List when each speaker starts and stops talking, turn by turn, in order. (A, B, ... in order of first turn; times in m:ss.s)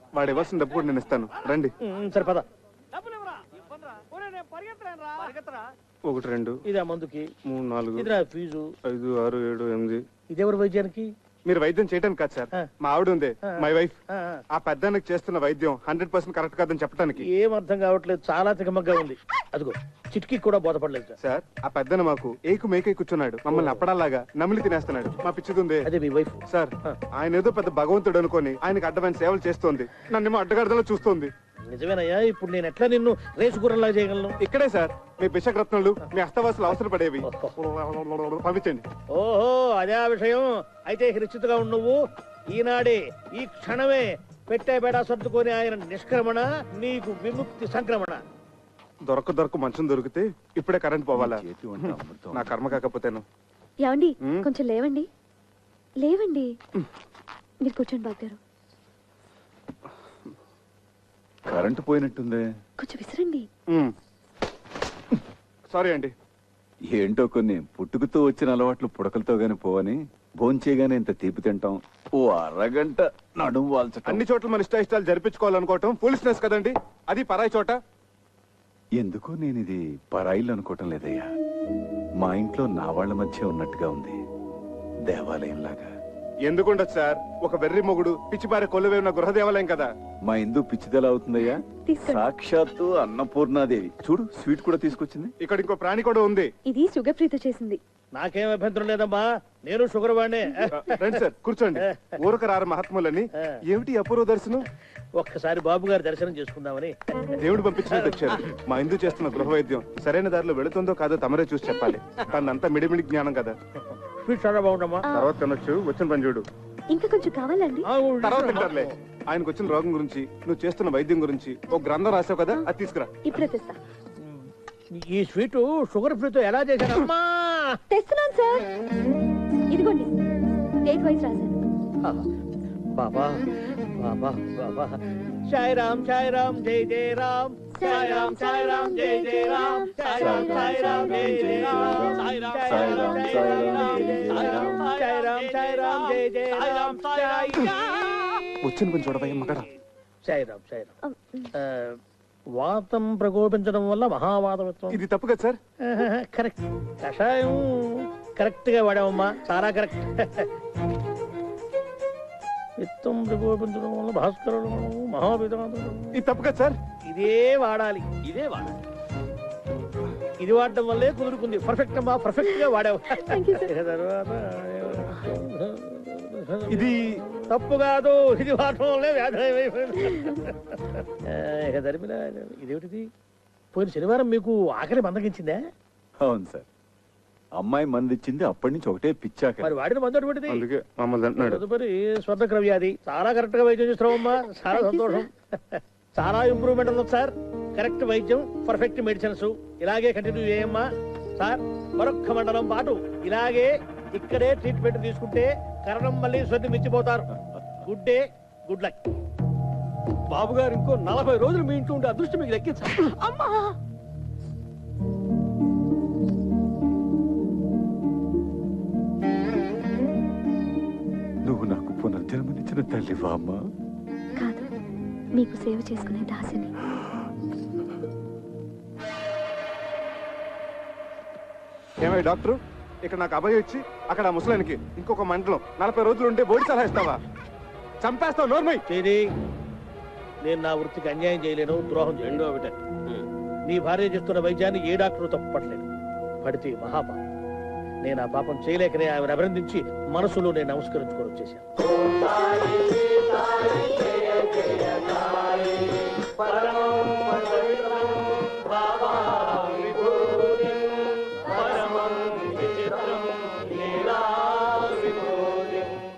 0:00.1-0:01.7 A
0:01.8-0:02.4 B
0:02.9-0:05.6 C
0:06.0-0:06.6 A
0:06.6-0:07.3 B
0:07.5-0:08.1 A
0:08.0-0:08.7 B
0:08.9-0:10.0 A
0:10.3-0:11.1 B
0:11.4-0:14.0 A
0:14.1-0:14.4 B
0:14.5-0:17.3 A
0:17.2-0:21.1 B
0:21.2-0:25.9 A
0:23.5-0:23.8 B
0:25.8-0:27.0 B
0:26.5-0:31.3 A
0:31.7-0:34.4 B
0:34.4-0:38.8 A
0:37.2-0:37.5 B
0:39.1-0:48.2 B
0:49.0-0:53.2 A
0:51.1-0:52.6 D
0:53.8-0:55.1 E
0:56.0-0:56.5 E
0:57.6-0:58.4 E
1:01.5-1:02.4 D
1:02.8-1:03.5 E
1:05.7-1:06.1 A
1:06.9-1:14.2 D
1:14.0-1:17.8 A
1:19.0-1:21.3 D
1:22.2-1:24.2 D
1:25.0-1:25.9 D
1:26.4-1:29.9 A
1:30.2-1:35.3 D
1:31.8-1:32.3 E
1:35.4-1:36.5 A
1:36.6-1:37.8 E
1:38.1-1:41.0 B
1:40.7-1:44.7 A
1:41.8-1:42.1 B
1:45.2-1:47.0 B
1:47.4-1:53.5 A
1:47.8-1:48.6 B
1:54.2-1:55.0 B
1:55.0-1:55.3 E
1:55.1-1:56.4 A
1:56.9-1:57.9 E
1:57.8-1:58.9 B
1:58.2-2:03.1 A
2:03.2-2:03.8 E
2:04.2-2:07.8 B
2:07.9-2:08.6 E
2:09.7-2:10.1 E
2:10.8-2:11.6 E
2:12.9-2:13.4 B
2:14.0-2:24.2 B
2:17.7-2:21.2 E
2:20.1-2:28.4 C
2:20.2-2:24.8 D
2:24.8-2:27.6 B
2:28.6-2:29.7 A
2:30.2-2:30.9 B
2:31.0-2:31.5 E
2:31.6-2:32.0 B
2:32.5-2:35.0 B
2:34.9-2:35.6 A
2:35.8-2:40.5 B
2:42.8-2:46.1 B
2:46.1-2:46.8 A
2:47.1-2:48.0 B
2:48.2-2:48.8 C
2:50.4-2:57.0 B
2:53.1-2:53.7 E
2:56.7-2:57.2 A
2:57.5-3:03.1 B
3:03.7-3:05.6 B
3:06.2-3:06.7 D
3:07.6-3:09.7 D
3:09.6-3:10.6 B
3:10.5-3:11.6 A
3:11.4-3:27.3 B
3:14.2-3:15.3 E
3:27.8-3:29.0 B
3:30.3-3:33.7 C
3:41.4-3:43.6 D
3:44.4-3:44.6 E
3:45.3-3:46.7 E
3:52.0-3:57.2 A
3:58.0-3:58.8 A
3:58.9-3:59.3 B
4:00.4-4:02.4 B
4:02.2-4:03.2 C
4:03.7-4:05.9 B
4:06.4-4:07.2 B
4:08.0-4:11.6 B
4:16.4-4:17.9 C
4:19.4-4:20.7 C
4:21.4-4:25.7 C